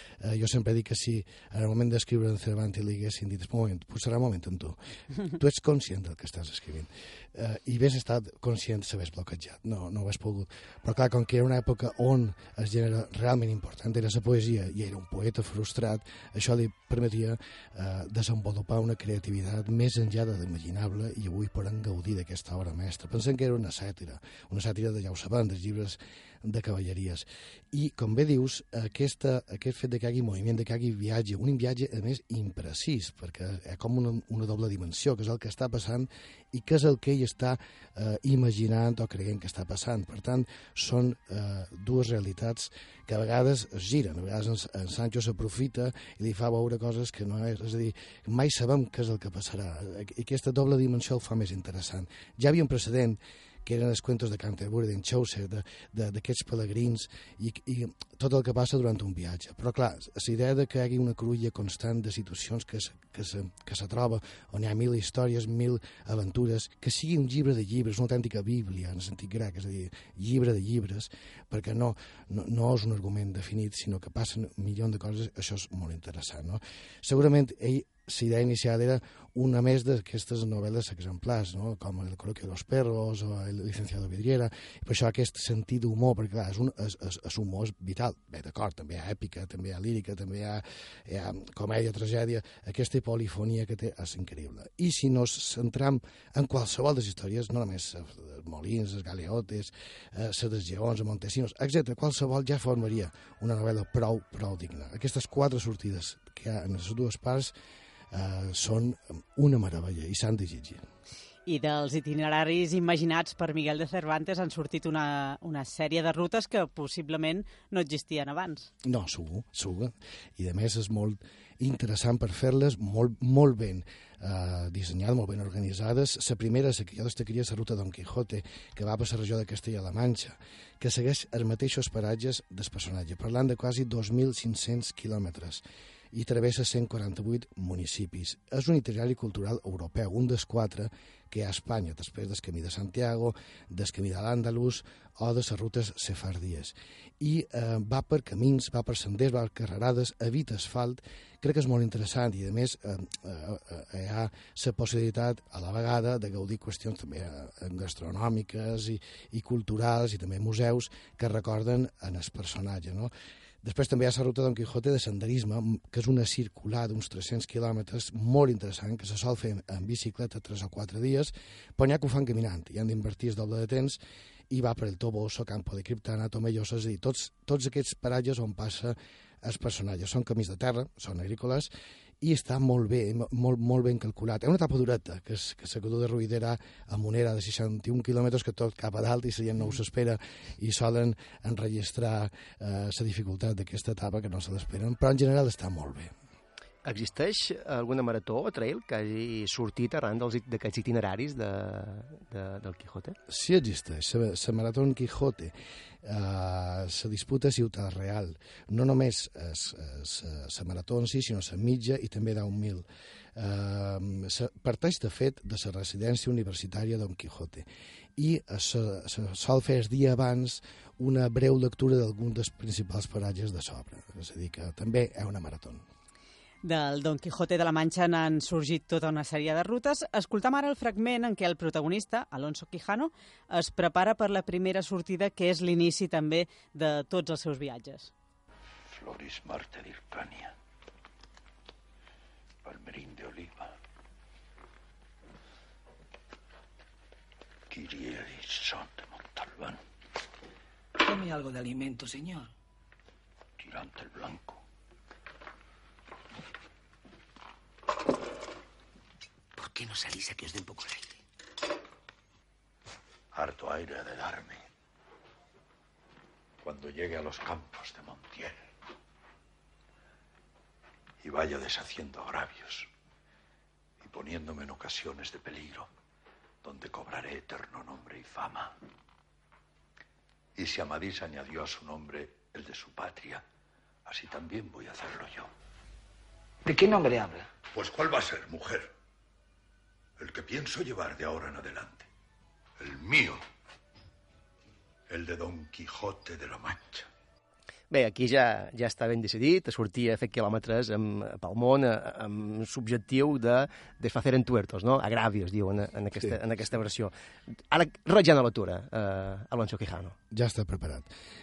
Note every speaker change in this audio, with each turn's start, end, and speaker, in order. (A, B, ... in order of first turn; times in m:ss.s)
0:00.2-1:47.5 A
1:48.1-1:50.8 A
1:51.5-1:58.7 B
1:58.8-2:43.1 A
2:43.6-3:16.1 A
3:16.8-3:23.2 C
3:23.3-3:25.5 A
3:26.0-3:32.8 A
3:33.4-3:37.7 A
3:38.2-3:45.8 A
3:46.6-3:58.1 B
3:58.9-4:00.5 D
4:02.6-4:03.7 D
4:07.7-4:09.8 D
4:11.0-4:12.5 E
4:13.6-4:14.6 D
4:19.6-4:21.1 E
4:23.3-4:24.6 D
4:26.6-4:28.6 D
4:31.2-4:32.9 D
4:34.0-4:35.9 D
4:36.6-4:38.7 D
4:40.6-4:43.4 D
4:44.1-4:45.5 D
4:46.6-4:47.5 E
4:47.7-4:48.9 D
4:50.2-4:52.1 D
4:52.8-4:53.4 D
4:55.1-4:57.1 D
4:57.9-5:07.1 C
5:07.7-5:10.2 C
5:10.3-5:11.1 A